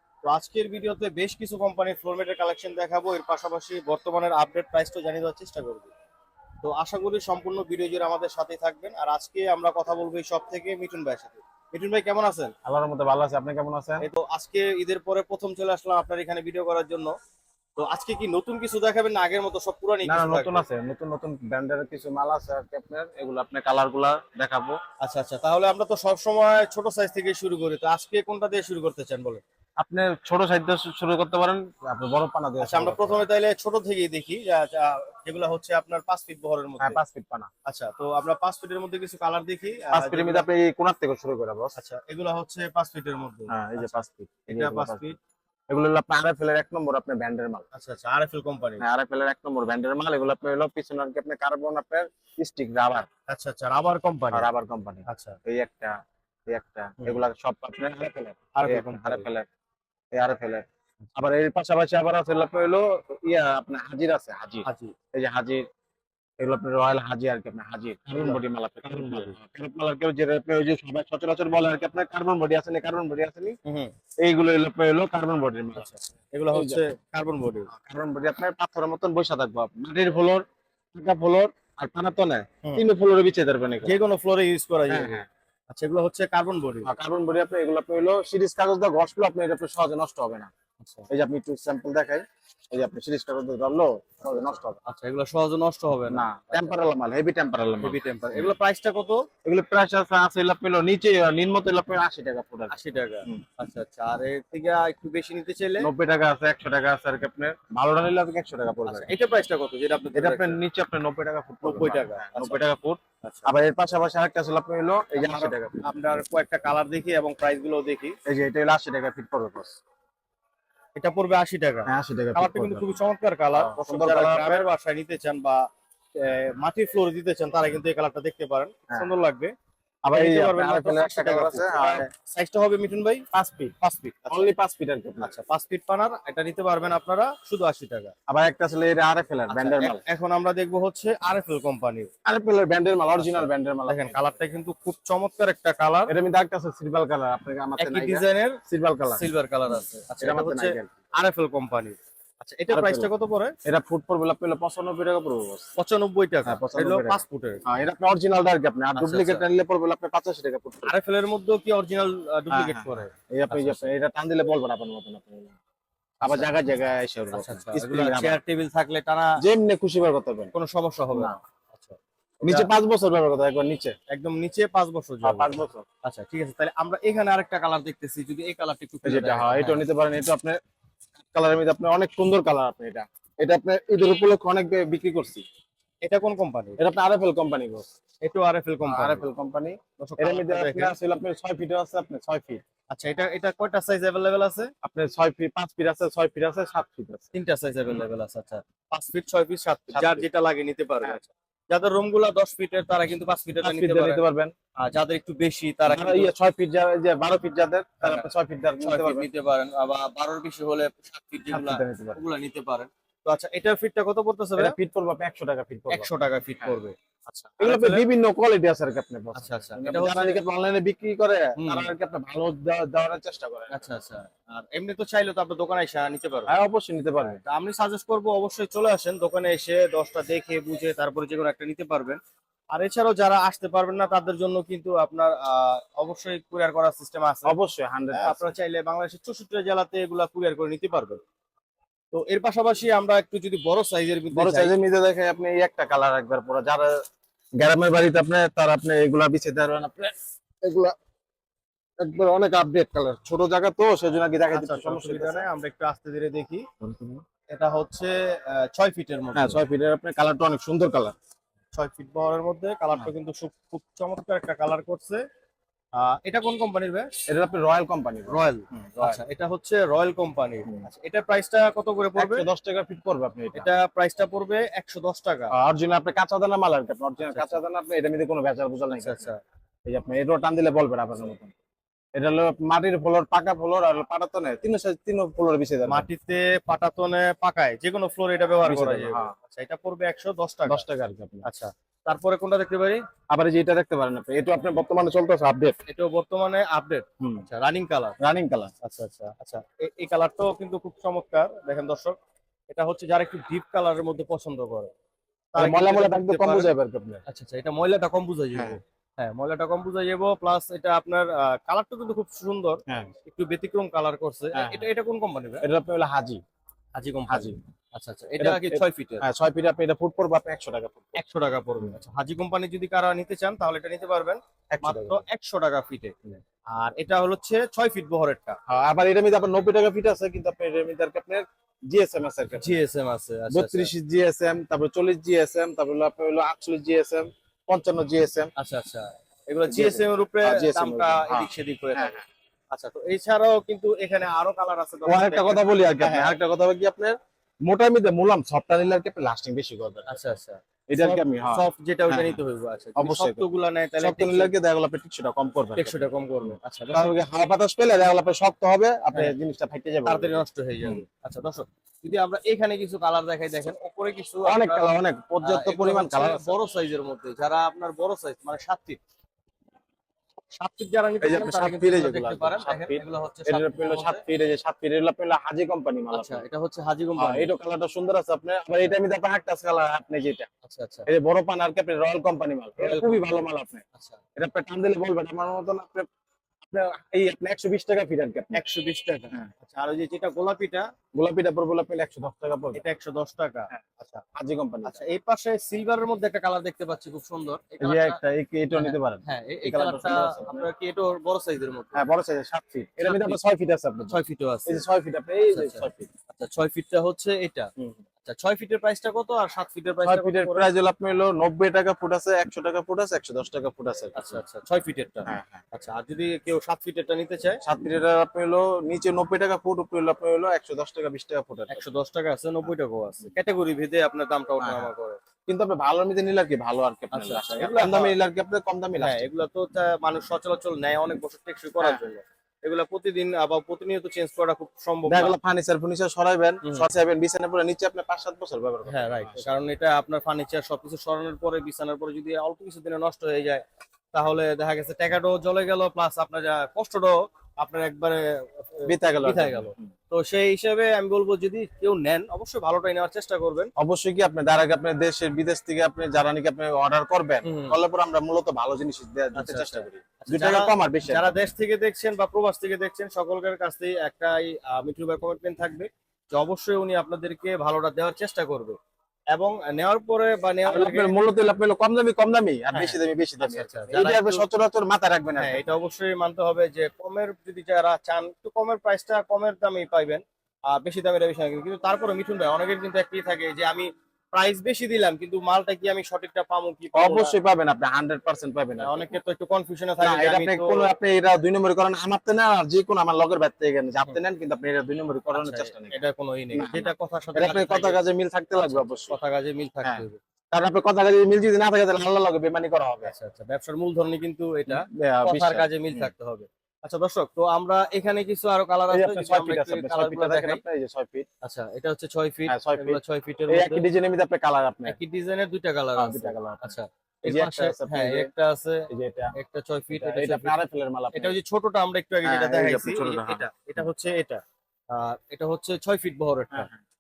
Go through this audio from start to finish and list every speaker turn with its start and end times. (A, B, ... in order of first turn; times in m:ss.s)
0:00.2-0:05.9 A
0:06.6-0:12.5 A
0:12.6-0:14.0 B
0:14.0-0:17.1 A
0:17.8-0:20.6 A
0:20.1-0:24.8 B
0:25.0-0:29.4 A
0:29.8-0:33.3 B
0:32.6-0:37.0 A
0:36.8-0:37.5 B
0:37.7-0:40.5 A
0:39.9-0:41.7 B
0:41.8-0:45.2 A
0:43.5-0:45.1 B
0:45.7-0:47.7 B
0:47.7-0:48.8 A
0:48.8-0:53.1 B
0:53.3-0:54.5 A
0:54.3-0:59.5 B
0:55.1-0:55.4 A
0:58.5-0:59.3 A
1:00.1-1:05.6 B
1:04.6-1:04.9 A
1:06.4-1:13.6 B
1:08.9-1:09.4 A
1:13.6-1:13.9 A
1:14.2-1:15.9 B
1:15.8-1:17.7 A
1:16.5-1:16.8 B
1:17.7-1:24.0 B
1:23.8-1:26.9 A
1:24.9-1:25.3 B
1:26.8-1:30.5 B
1:30.8-1:31.1 A
1:31.1-1:34.8 B
1:34.3-1:36.7 A
1:36.1-1:38.5 B
1:37.8-1:39.3 A
1:39.4-1:43.4 B
1:42.7-1:45.9 A
1:45.8-1:49.1 B
1:48.9-1:50.6 A
1:50.1-1:55.8 B
1:51.6-1:52.6 A
1:53.2-1:53.5 A
1:55.2-1:58.2 A
1:58.3-1:59.8 B
2:01.0-2:09.5 A
2:01.9-2:03.0 B
2:03.6-2:04.7 B
2:10.0-2:12.1 B
2:10.1-2:13.3 A
2:13.3-2:13.8 B
2:13.8-2:14.4 A
2:14.3-2:15.3 B
2:15.2-2:18.1 A
2:18.3-2:20.0 B
2:19.5-2:22.1 A
2:22.2-2:24.2 B
2:23.2-2:26.1 A
2:26.1-2:29.2 B
2:27.8-2:28.6 A
2:29.1-2:33.6 A
2:30.2-2:30.9 B
2:32.7-2:33.1 B
2:33.6-2:35.7 B
2:35.8-2:37.6 A
2:36.5-2:40.9 B
2:39.0-2:39.4 A
2:40.8-2:43.9 A
2:42.5-2:45.6 B
2:46.2-2:46.5 A
2:46.2-2:48.4 B
2:47.3-2:49.4 A
2:49.4-2:50.5 B
2:50.5-2:52.7 A
2:52.4-2:54.0 B
2:54.1-2:59.9 A
2:55.2-2:55.9 B
2:59.0-3:00.6 B
3:01.2-3:05.4 B
3:06.0-3:06.8 A
3:06.8-3:07.9 B
3:08.2-3:09.2 A
3:08.9-3:12.6 B
3:10.0-3:11.0 A
3:12.9-3:14.7 A
3:14.8-3:17.3 B
3:17.3-3:24.2 A
3:19.9-3:20.3 B
3:23.6-3:24.5 B
3:24.8-3:26.3 A
3:25.9-3:29.3 B
3:28.0-3:28.3 A
3:28.8-3:34.8 A
3:31.5-3:32.2 B
3:34.6-3:36.1 B
3:35.9-3:38.0 A
3:37.6-3:44.0 B
3:39.4-3:40.4 A
3:41.6-3:41.9 A
3:43.7-3:46.5 A
3:46.5-3:47.4 B
3:47.4-3:52.2 A
3:52.7-3:57.5 A
3:57.4-3:58.5 B
3:58.2-4:01.2 A
4:02.1-4:04.7 A
4:04.3-4:06.9 B
4:07.6-4:11.0 B
4:12.0-4:15.5 B
4:14.5-4:16.7 A
4:16.8-4:17.2 B
4:17.5-4:19.6 A
4:19.4-4:21.1 B
4:21.7-4:25.2 A
4:26.0-4:27.1 A
4:27.3-4:29.2 B
4:28.3-4:32.5 A
4:32.2-4:33.7 B
4:33.6-4:35.5 A
4:35.5-4:39.3 B
4:37.2-4:37.6 A
4:38.9-4:39.4 A
4:39.9-4:41.6 B
4:42.2-4:46.1 B
4:45.9-4:50.8 A
4:48.6-4:49.3 B
4:50.7-4:51.5 B
4:51.4-4:53.0 A
4:53.3-4:55.8 B
4:55.9-4:58.2 A
4:57.2-4:57.5 B
4:58.2-4:58.7 B
4:58.8-5:02.2 A
5:02.7-5:04.9 A
5:05.5-5:06.7 A
5:05.6-5:07.2 B
5:07.3-5:15.6 A
5:08.6-5:08.8 B
5:14.6-5:14.8 B
5:15.6-5:16.4 B
5:17.0-5:19.2 A
5:17.3-5:17.6 B
5:18.4-5:21.2 B
5:21.2-5:28.6 A
5:24.7-5:25.2 B
5:28.7-5:32.8 B
5:32.6-5:33.9 A
5:33.5-5:38.5 B
5:38.6-5:42.2 A
5:39.7-5:42.2 B
5:42.7-5:46.3 A
5:45.1-5:50.2 B
5:50.1-5:54.5 A
5:50.9-5:52.4 B
5:53.0-5:53.5 B
5:54.0-6:01.0 B
5:55.8-5:57.1 A
6:00.1-6:04.9 A
6:04.5-6:06.5 B
6:05.4-6:09.0 A
6:10.5-6:14.2 A
6:11.2-6:16.4 B
6:16.1-6:17.5 A
6:17.2-6:20.5 B
6:20.6-6:21.1 A
6:21.1-6:23.8 B
6:22.8-6:23.2 A
6:23.9-6:24.2 A
6:24.4-6:26.1 B
6:26.7-6:28.6 B
6:28.5-6:30.9 A
6:31.1-6:32.8 B
6:32.8-6:34.2 A
6:34.4-6:35.0 B
6:34.8-6:38.2 A
6:37.8-6:40.7 B
6:38.7-6:42.0 A
6:41.9-6:46.1 B
6:43.0-6:43.4 A
6:44.1-6:44.8 A
6:45.5-6:47.7 A
6:48.2-6:50.7 A
6:50.0-6:54.4 B
6:54.2-6:57.6 A
6:55.3-6:55.6 B
6:57.6-7:01.9 B
7:01.7-7:05.2 A
7:04.6-7:04.9 B
7:05.5-7:09.3 B
7:07.1-7:08.2 A
7:09.0-7:15.4 A
7:15.1-7:19.5 B
7:18.9-7:33.7 A
7:28.9-7:29.9 B
7:33.8-7:41.3 B
7:37.4-7:37.8 A
7:39.4-7:48.8 A
7:49.3-7:51.1 A
7:50.6-7:55.6 B
7:52.7-7:54.5 A
7:55.4-8:07.3 A
8:06.9-8:09.1 B
8:08.8-8:10.9 A
8:10.0-8:16.0 B
8:15.3-8:18.0 A
8:16.5-8:19.2 B
8:18.6-8:20.2 A
8:19.8-8:23.1 B
8:23.0-8:30.6 A
8:24.7-8:26.1 B
8:28.9-8:31.3 B
8:31.4-8:33.9 A
8:32.5-8:35.0 B
8:34.9-8:40.6 A
8:36.0-8:38.3 B
8:38.9-8:39.3 B
8:39.9-8:41.4 B
8:41.1-8:46.7 A
8:42.2-8:43.4 B
8:46.5-8:46.8 B